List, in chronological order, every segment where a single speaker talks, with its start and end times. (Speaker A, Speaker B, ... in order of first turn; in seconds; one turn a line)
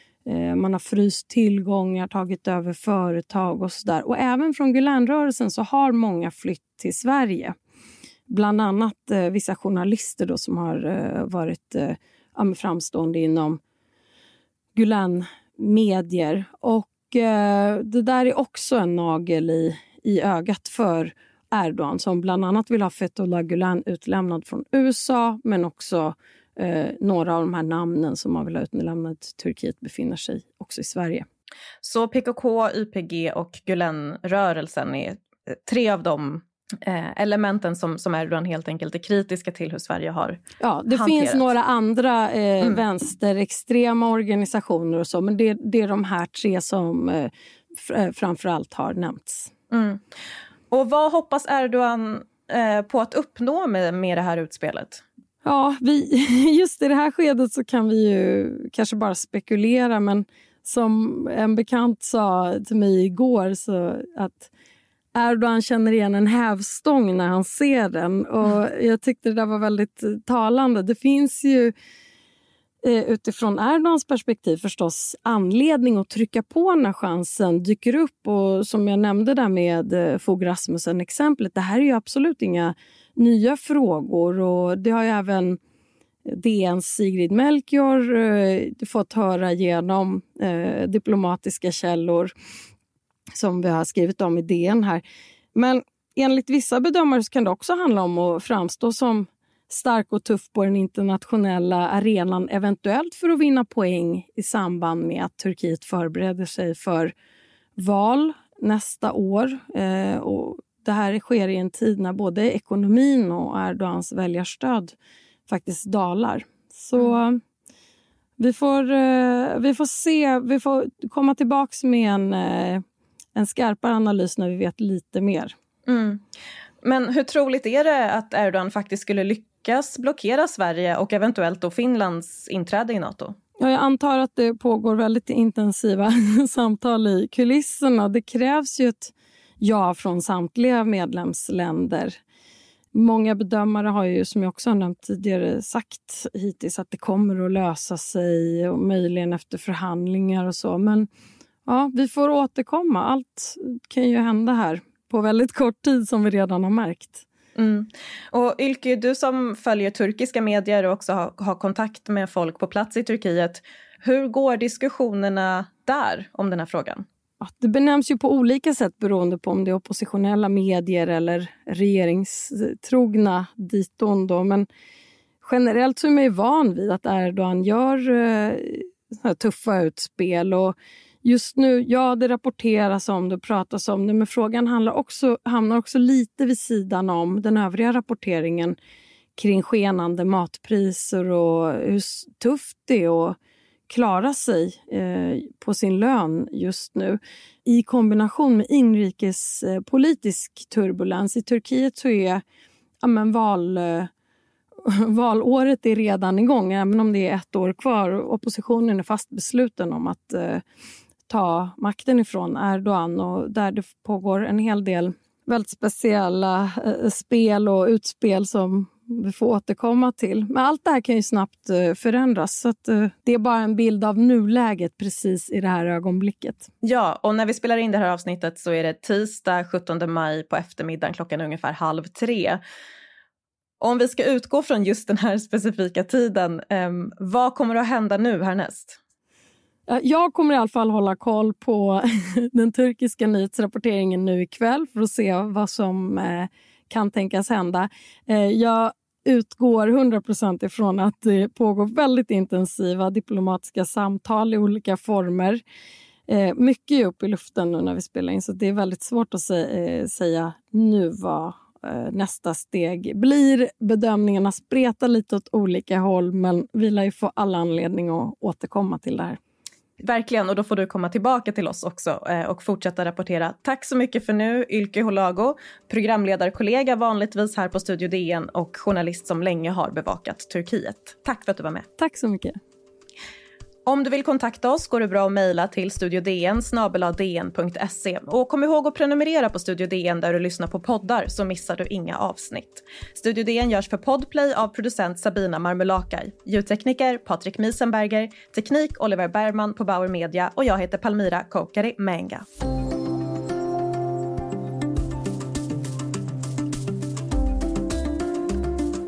Speaker A: 0.3-7.5
Speaker A: 8.3-13.6
Speaker A: 14.8-31.3
Speaker B: 31.8-41.5
Speaker A: 40.6-49.5
Speaker B: 49.7-50.0
Speaker B: 50.7-55.0
Speaker A: 55.4-64.5
Speaker A: 65.2-71.7
Speaker A: 72.8-85.6
Speaker A: 86.3-92.3
Speaker A: 93.3-95.0
Speaker A: 95.5-107.1
Speaker A: 107.8-114.9
Speaker A: 115.5-117.4
Speaker A: 118.4-122.8
Speaker A: 123.3-125.5
Speaker B: 125.9-126.2
Speaker B: 126.8-133.4
Speaker A: 133.6-142.2
Speaker A: 142.9-151.1
Speaker A: 151.7-157.3
Speaker B: 157.6-167.1
Speaker A: 167.4-174.7
Speaker A: 175.4-188.8
Speaker A: 189.4-193.4
Speaker A: 193.9-202.4
Speaker A: 203.0-204.1
Speaker A: 204.8-210.6
Speaker A: 211.3-226.7
Speaker B: 226.8-232.6
Speaker B: 233.8-239.0
Speaker A: 239.9-255.6
Speaker A: 256.3-269.4
Speaker B: 270.0-281.9
Speaker A: 282.0-282.6
Speaker B: 283.9-302.5